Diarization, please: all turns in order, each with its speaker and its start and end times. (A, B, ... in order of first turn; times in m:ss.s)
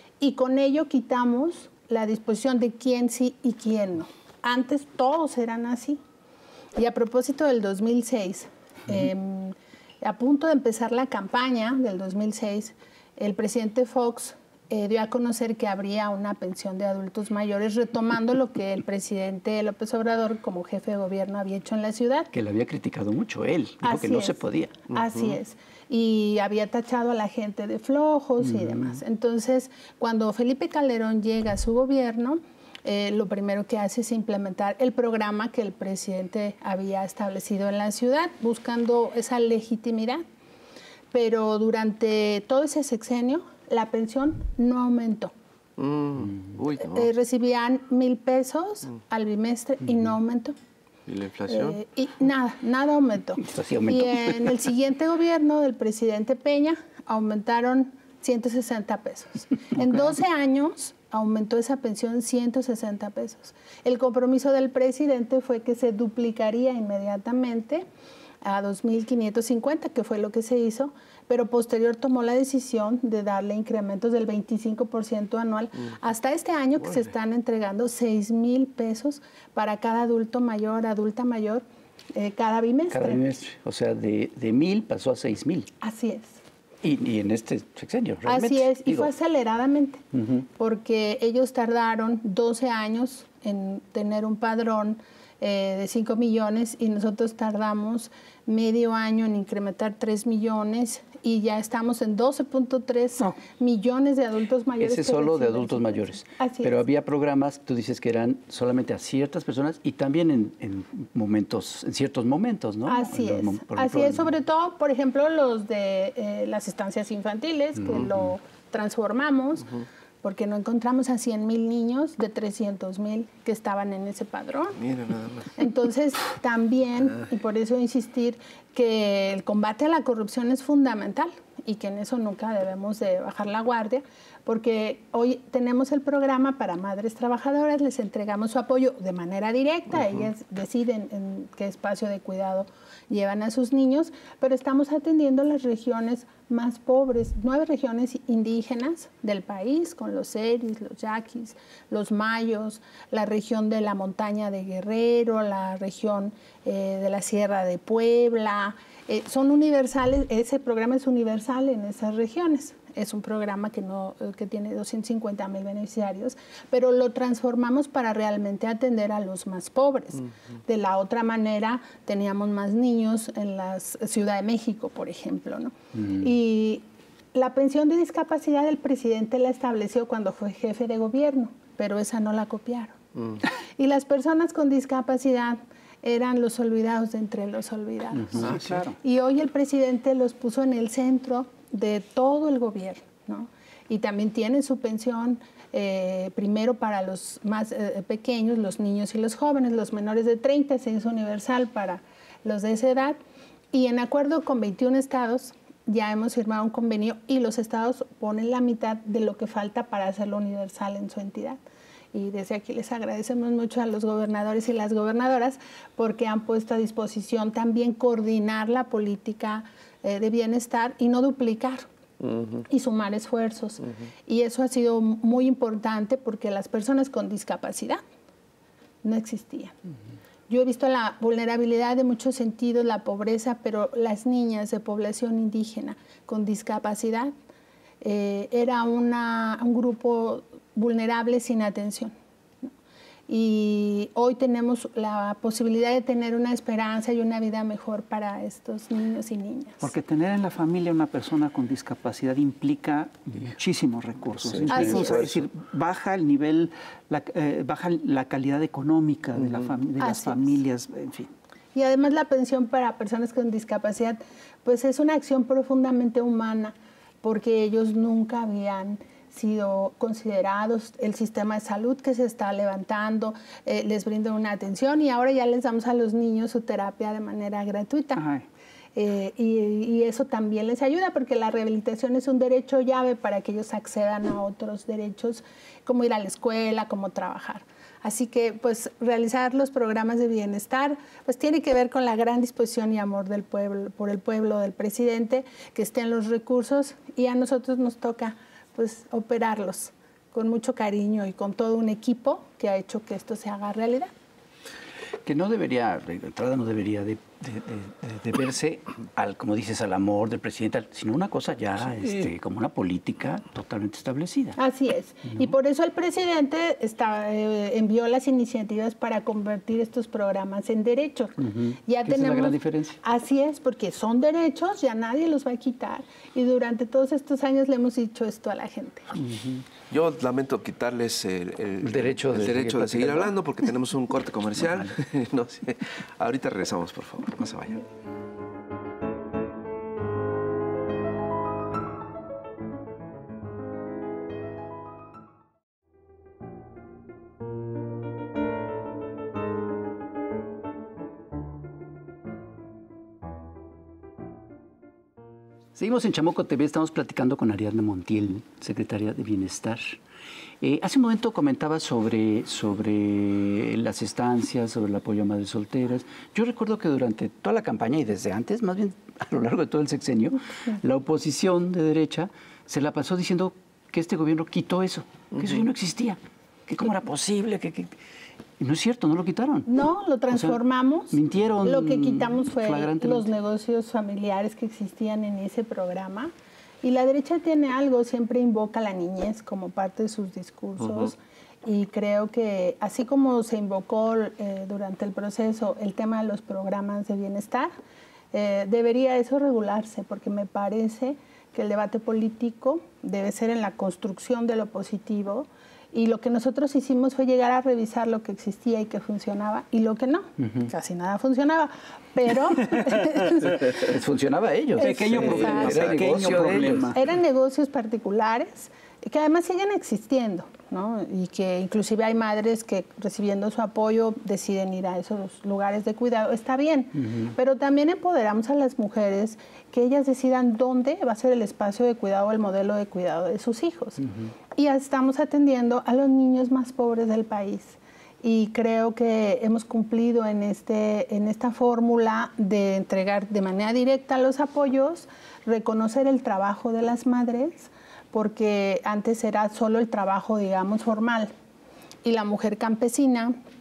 0:00.2-0:06.0 A
0:06.8-0:22.3 A
0:22.3-0:24.8 B
0:23.8-0:40.2 A
0:28.4-0:28.9 B
0:41.1-0:45.3 A
0:45.8-0:47.1 C
0:46.8-0:50.6 A
0:51.1-0:51.8 C
0:51.5-1:07.8 A
0:53.4-0:54.5 B
1:08.4-1:23.2 A
1:22.9-1:25.7 B
1:25.8-1:26.4 A
1:26.8-1:29.1 B
1:28.3-1:30.0 A
1:30.1-1:30.4 B
1:30.6-1:46.8 A
1:44.8-1:54.3 B
1:52.9-1:59.7 A
2:00.2-2:04.8 A
2:04.8-2:05.6 C
2:05.6-3:03.0 A
3:03.8-3:23.2 A
3:08.3-3:08.5 B
3:08.4-3:08.9 D
3:08.4-3:08.8 C
3:23.7-3:31.6 A
3:32.1-3:41.9 A
3:42.2-3:42.6 C
3:42.7-3:48.0 A
3:49.0-3:49.7 A
3:50.5-3:57.3 A
3:58.0-4:02.1 A
4:03.3-4:09.9 A
4:09.8-4:21.3 D
4:14.4-4:15.5 B
4:14.7-4:15.2 A
4:20.0-4:20.5 A
4:21.8-4:38.2 A
4:38.2-4:38.4 D
4:39.0-5:04.1 A
5:05.2-5:14.6 B
5:14.6-5:29.1 A
5:21.4-5:23.0 B
5:29.2-5:29.6 B
5:29.9-5:37.8 C
5:31.8-5:33.3 B
5:55.8-6:00.0 B
6:00.6-6:18.0 B
6:18.6-6:19.7 B
6:19.7-6:37.7 A
6:20.3-6:20.6 B
6:21.1-6:23.3 B
6:38.3-6:53.8 A
6:53.3-6:57.0 B
6:54.8-6:55.8 A
6:54.8-6:57.0 D
6:56.9-7:31.3 A
7:32.0-7:33.4 A